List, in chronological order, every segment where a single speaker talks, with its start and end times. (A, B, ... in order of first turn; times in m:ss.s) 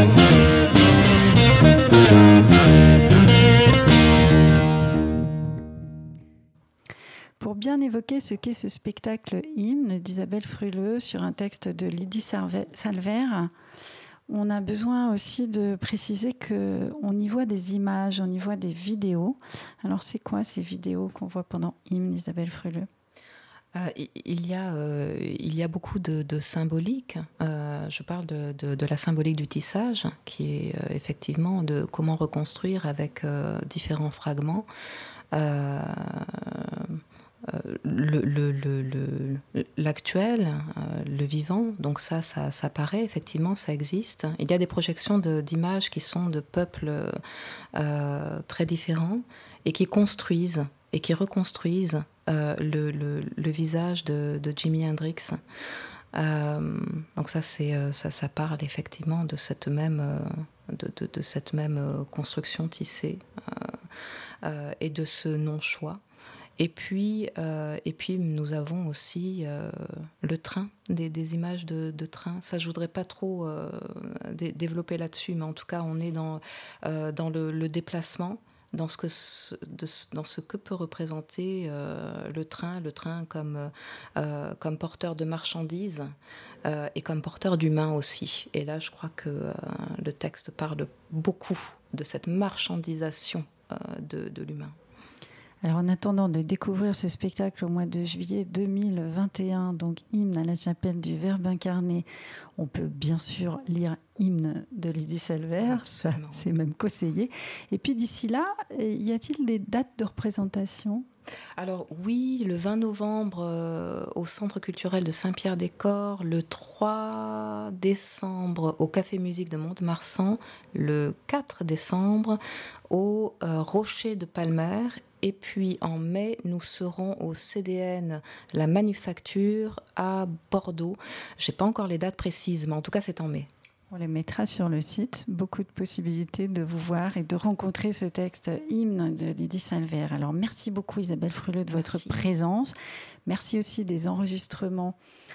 0:07.4-0:13.5 A
0:14.3-0:22.9 A
0:23.7-0:34.7 B
0:35.3-0:47.2 B
0:47.7-0:55.4 B
0:56.1-1:03.8 B
1:04.4-1:06.0 B
1:06.6-1:26.1 B
1:26.6-1:34.8 B
1:35.6-1:51.0 A
1:45.6-1:46.5 B
1:51.6-2:02.4 B
2:02.9-2:13.5 B
2:13.9-2:22.7 A
2:21.7-2:22.2 B
2:23.2-2:25.0 A